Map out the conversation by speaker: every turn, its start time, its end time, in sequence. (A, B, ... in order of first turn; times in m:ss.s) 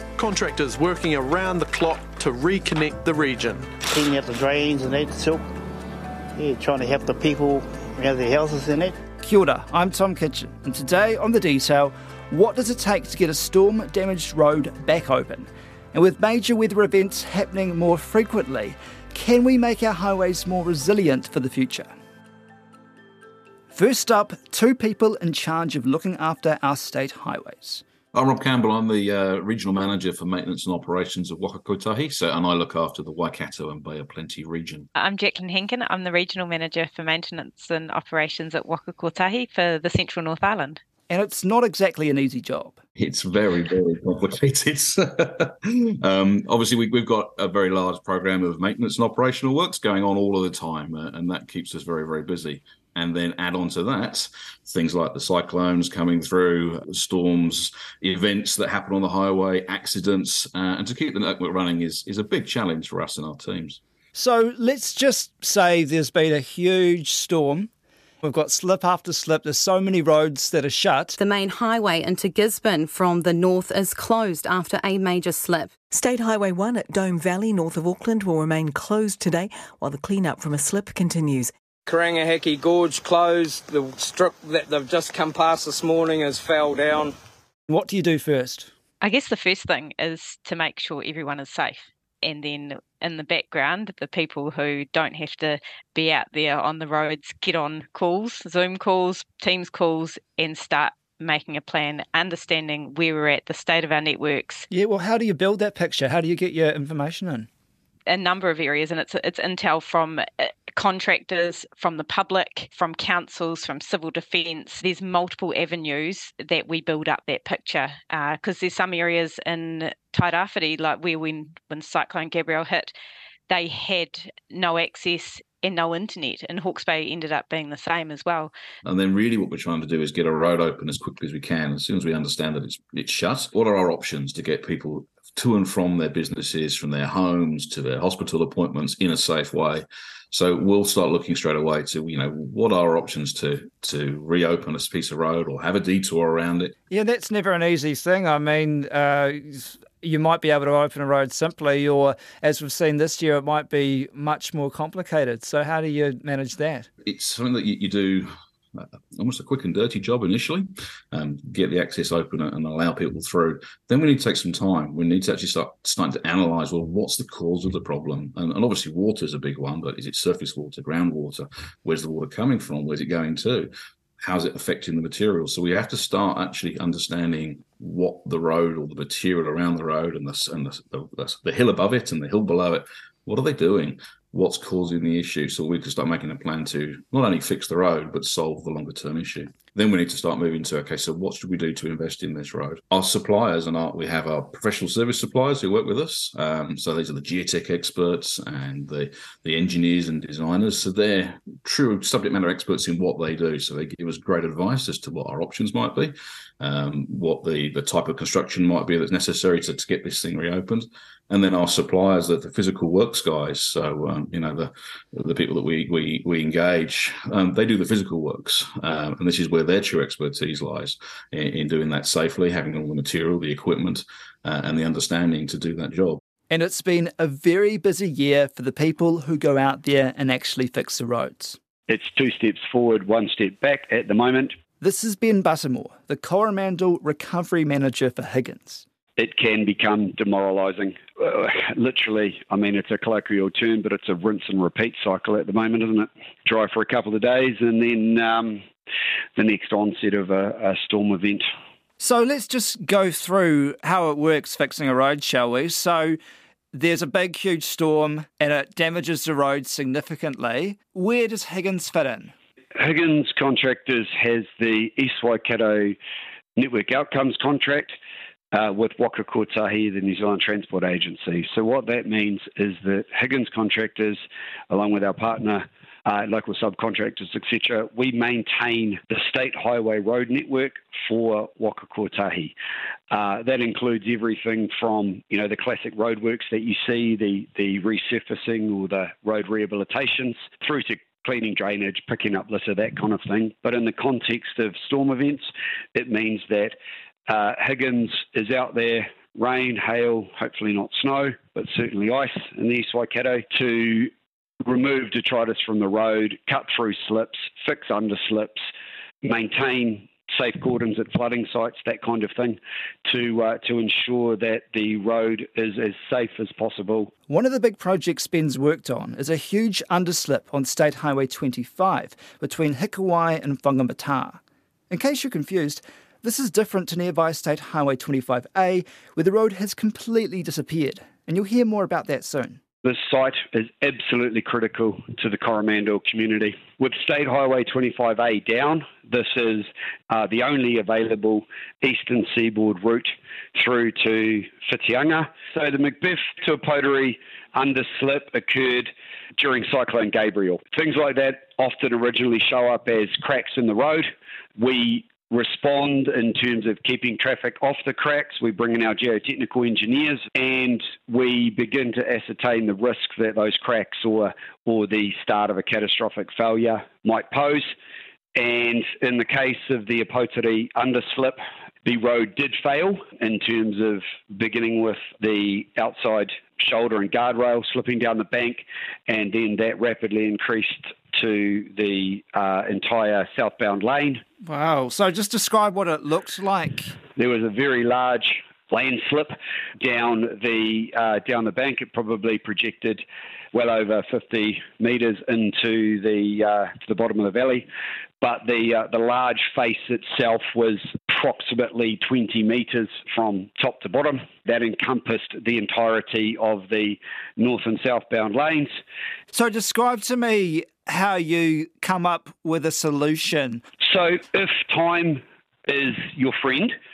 0:00.2-0:03.6 A
0:03.8-0:05.4 B
0:06.4-0:08.9 B
0:09.2-0:21.9 C
0:23.7-0:27.8 C
0:28.1-0:34.9 D
0:35.0-0:40.8 E
0:41.1-0:42.8 C
0:43.0-1:03.8 D
1:04.2-1:07.7 C
1:08.2-1:11.2 C
1:11.2-1:15.7 F
1:15.9-1:21.5 G
1:21.9-1:27.2 H
1:27.7-1:28.7 C
1:29.0-1:44.7 E
1:44.7-1:47.5 C
1:48.1-2:02.9 E
2:03.5-2:08.5 E
2:08.8-2:26.7 D
2:26.9-2:36.9 C
2:37.0-3:46.2 D
3:46.5-3:51.6 C
3:51.9-3:54.6 I
3:54.8-3:58.8 C
3:59.2-4:08.6 I
4:09.4-4:11.4 I
4:12.0-4:16.2 C
4:16.7-4:22.3 C
4:22.8-4:26.0 I
4:26.6-4:27.9 I
4:28.5-4:42.5 I
4:43.1-4:56.8 I
4:57.3-5:04.1 I
5:04.6-5:08.6 I
5:09.2-5:17.1 I
5:17.3-5:32.6 C
5:32.8-6:07.7 I
6:08.4-6:24.2 I
6:24.4-6:27.0 C
6:27.2-6:37.7 I
6:38.2-6:48.7 I
6:49.3-6:53.6 C
6:53.8-6:56.8 I